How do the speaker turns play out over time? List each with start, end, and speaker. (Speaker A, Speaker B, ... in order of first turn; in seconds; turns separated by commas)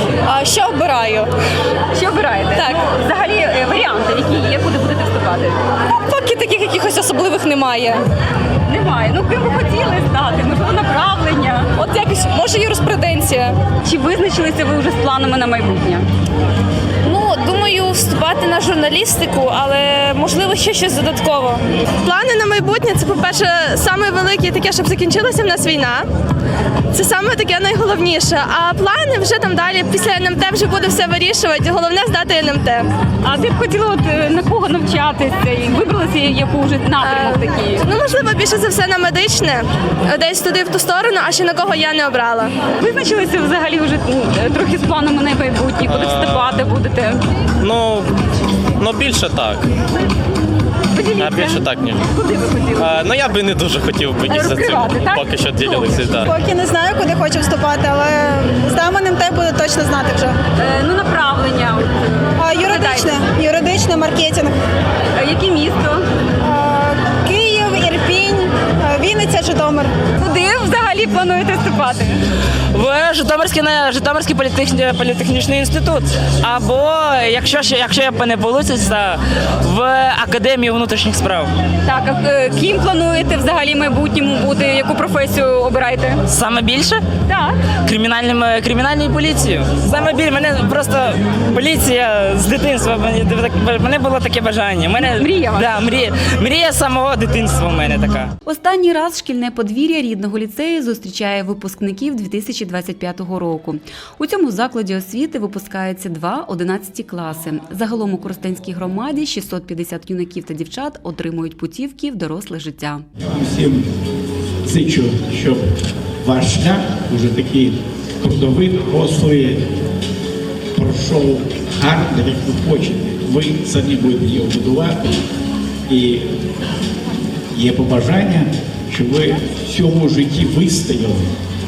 Speaker A: 0.3-1.3, Speaker B: 1.9-5.6, Speaker A: 2.5-2.8, Speaker A: 5.9-8.0, Speaker B: 8.7-11.7, Speaker A: 11.7-13.6, Speaker B: 13.8-16.1, Speaker B: 17.1-21.6, Speaker C: 22.0-26.1, Speaker C: 26.9-32.9, Speaker B: 33.2-37.9, Speaker C: 37.0-42.6, Speaker B: 42.7-47.3, Speaker D: 45.8-46.6, Speaker D: 47.6-48.1, Speaker D: 48.8-49.7, Speaker B: 50.9-53.0, Speaker D: 51.2-52.1, Speaker D: 52.8-56.3, Speaker B: 54.3-56.0, Speaker E: 56.2-60.4, Speaker B: 60.6-62.0, Speaker E: 62.4-64.5, Speaker B: 62.7-63.1, Speaker B: 65.2-66.1, Speaker E: 66.4-69.9, Speaker B: 70.2-72.2, Speaker F: 72.7-81.5, Speaker B: 81.8-86.2, Speaker F: 86.3-87.0, Speaker B: 87.3-87.6, Speaker F: 87.8-98.3, Speaker B: 95.0-95.8, Speaker G: 98.5-113.1, Speaker H: 113.2-113.8, Speaker H: 114.7-115.7, Speaker H: 116.2-119.6, Speaker H: 120.8-125.0, Speaker H: 125.9-126.3, Speaker H: 127.5-131.3